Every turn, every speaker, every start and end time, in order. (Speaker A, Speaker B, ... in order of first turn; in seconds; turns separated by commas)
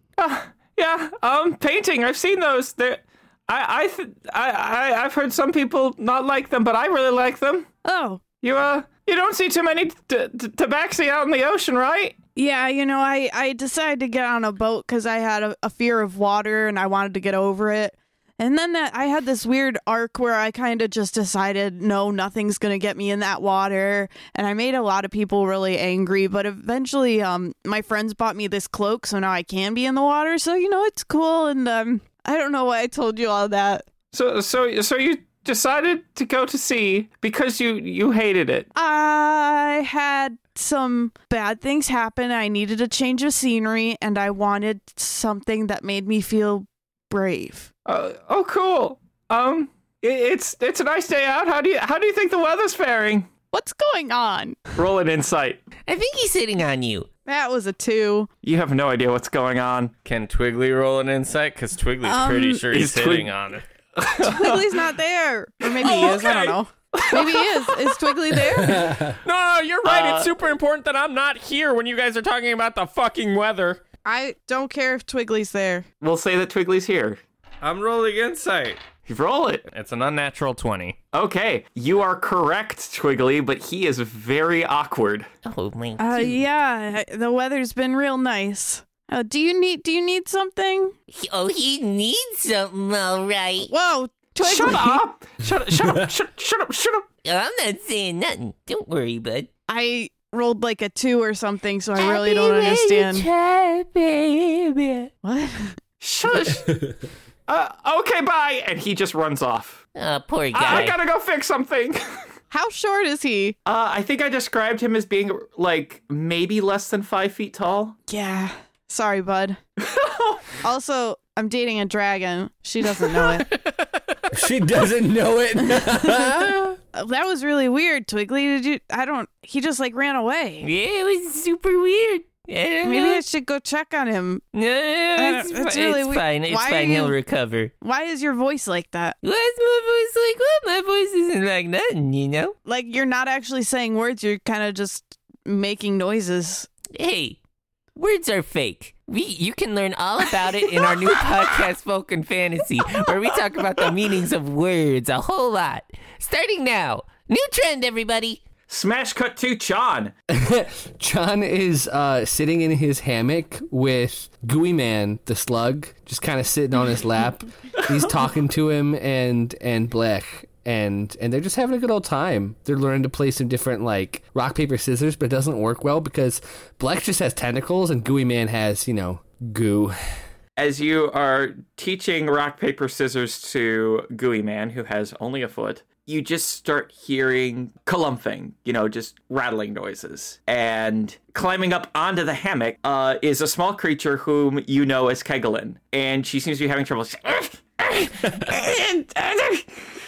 Speaker A: 0.2-7.7, Speaker B: 7.8-8.2, Speaker A: 8.4-12.2, Speaker B: 12.4-33.9, Speaker A: 34.1-38.7, Speaker B: 38.8-47.7, Speaker A: 47.9-53.3, Speaker B: 53.5-54.6, Speaker A: 54.8-55.6, Speaker C: 55.9-57.1, Speaker B: 57.3-58.3, Speaker A: 58.4-59.9, Speaker D: 60.0-63.7, Speaker B: 62.0-62.7, Speaker A: 62.7-63.3, Speaker A: 64.0-64.6, Speaker B: 64.2-69.0, Speaker A: 65.7-67.5, Speaker E: 68.5-69.2, Speaker D: 69.1-73.8, Speaker A: 69.8-70.3, Speaker B: 74.0-75.9, Speaker A: 76.0-77.2, Speaker D: 77.6-78.8, Speaker A: 79.1-79.6, Speaker D: 79.7-81.0, Speaker A: 81.1-85.3, Speaker C: 85.5-86.4, Speaker B: 86.0-91.0, Speaker C: 91.1-93.7, Speaker B: 93.7-95.0, Speaker A: 94.4-97.1, Speaker C: 97.2-99.5, Speaker B: 99.7-103.3, Speaker C: 102.0-105.1, Speaker B: 105.2-105.8, Speaker A: 106.0-106.8, Speaker A: 107.5-109.8, Speaker C: 110.0-111.0, Speaker A: 110.5-112.0, Speaker B: 112.5-113.6, Speaker A: 113.7-118.0, Speaker B: 118.1-119.6, Speaker A: 119.8-120.5, Speaker B: 120.6-123.5, Speaker E: 124.3-126.8, Speaker B: 125.6-126.3, Speaker B: 126.9-130.7, Speaker C: 130.6-133.2, Speaker B: 132.8-134.4, Speaker C: 134.5-137.7, Speaker B: 135.2-137.2, Speaker B: 137.8-139.2, Speaker C: 139.2-142.6, Speaker B: 142.7-146.7, Speaker C: 146.9-147.4, Speaker C: 147.9-158.4, Speaker A: 158.7-160.1, Speaker E: 160.3-179.9, Speaker A: 180.6-199.7